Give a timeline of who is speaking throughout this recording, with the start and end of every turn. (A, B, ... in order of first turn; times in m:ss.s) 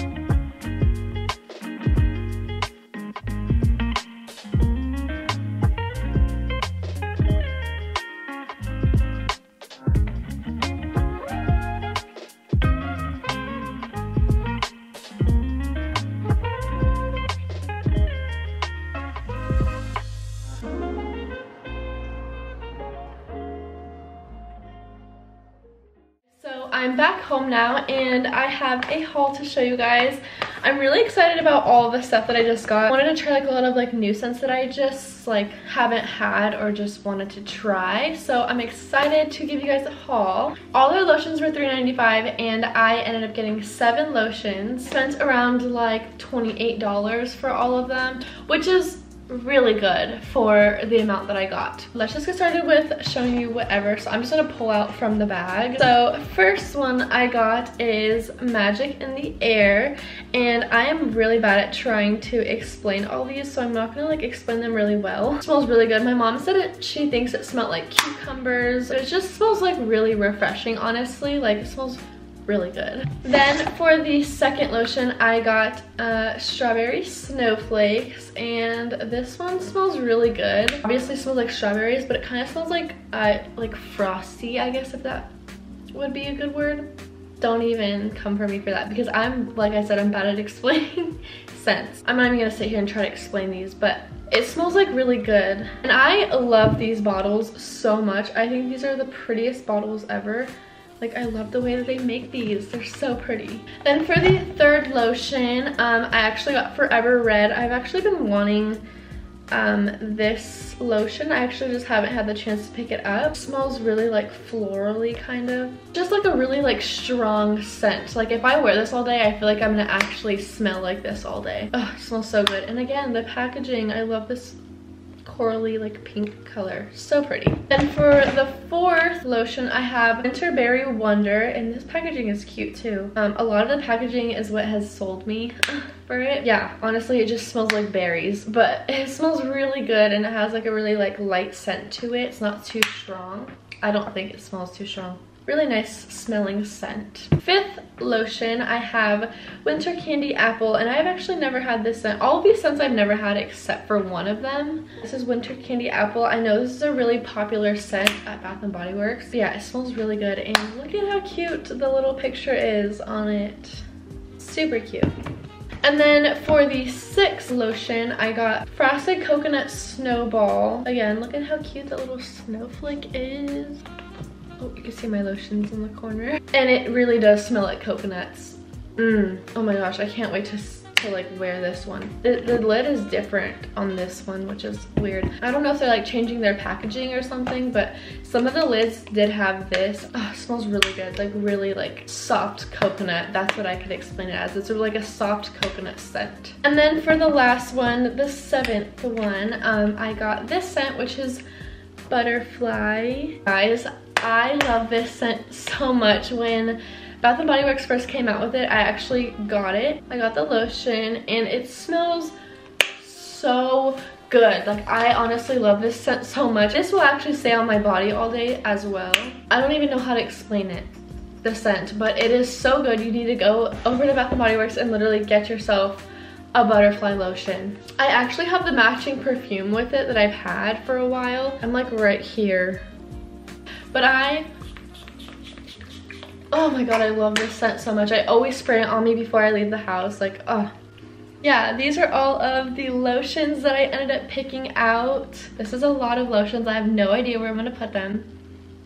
0:26.4-1:25.3 A
1:25.9-1:26.9 A
1:27.4-1:48.8 A
1:49.5-2:04.6 A
2:05.2-2:43.9 A
2:44.4-2:45.2 A
2:45.8-2:53.8 A
2:54.6-3:21.4 A
3:22.1-3:32.4 A
3:33.0-3:52.8 A
3:53.9-3:54.5 A
3:56.5-4:00.7 A
4:01.4-4:08.3 A